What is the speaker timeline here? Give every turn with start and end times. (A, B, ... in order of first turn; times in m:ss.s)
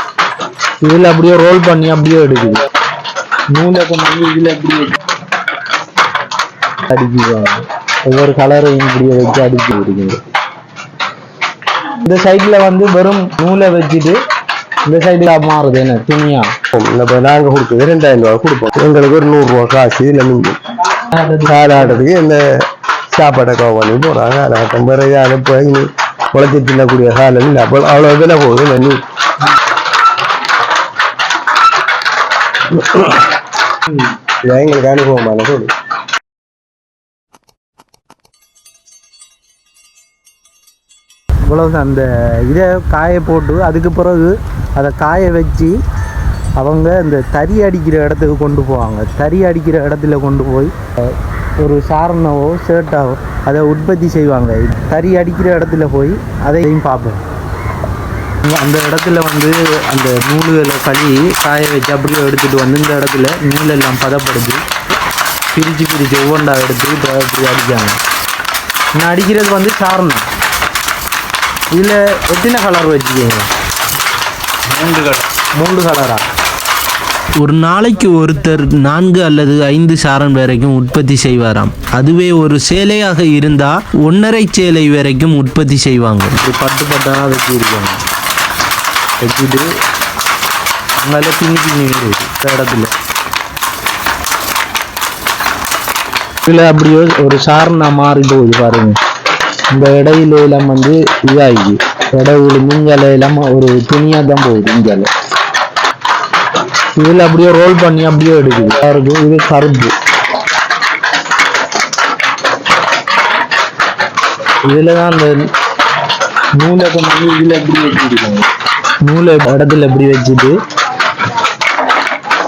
0:00.8-0:02.6 A
0:03.5-0:05.0 A
0:06.9-0:10.2 A
0:12.0-0:14.2 A
0:14.8-0:16.5 A
0:16.7-0:20.6 B
0:21.1-0:22.0 A
0:21.4-0:22.4 B
0:23.1-0:29.0 B
0:32.7-0:33.2 B
0:34.4-0:35.7 B
0:41.4-0:45.8 A
0:46.6-0:57.2 A
0:58.4-1:04.6 A
1:05.5-1:08.0 A
1:09.0-1:10.3 A
1:11.7-1:13.5 A
1:14.7-1:15.2 C
1:15.6-1:16.2 A
1:17.4-1:26.4 C
1:26.4-1:28.0 A
1:29.2-1:29.7 A
1:31.0-1:32.9 A
1:36.4-1:39.0 A
1:39.7-1:45.1 A
1:47.0-1:49.9 A
1:54.6-1:55.5 A
1:56.5-1:58.4 A
1:59.0-2:00.6 A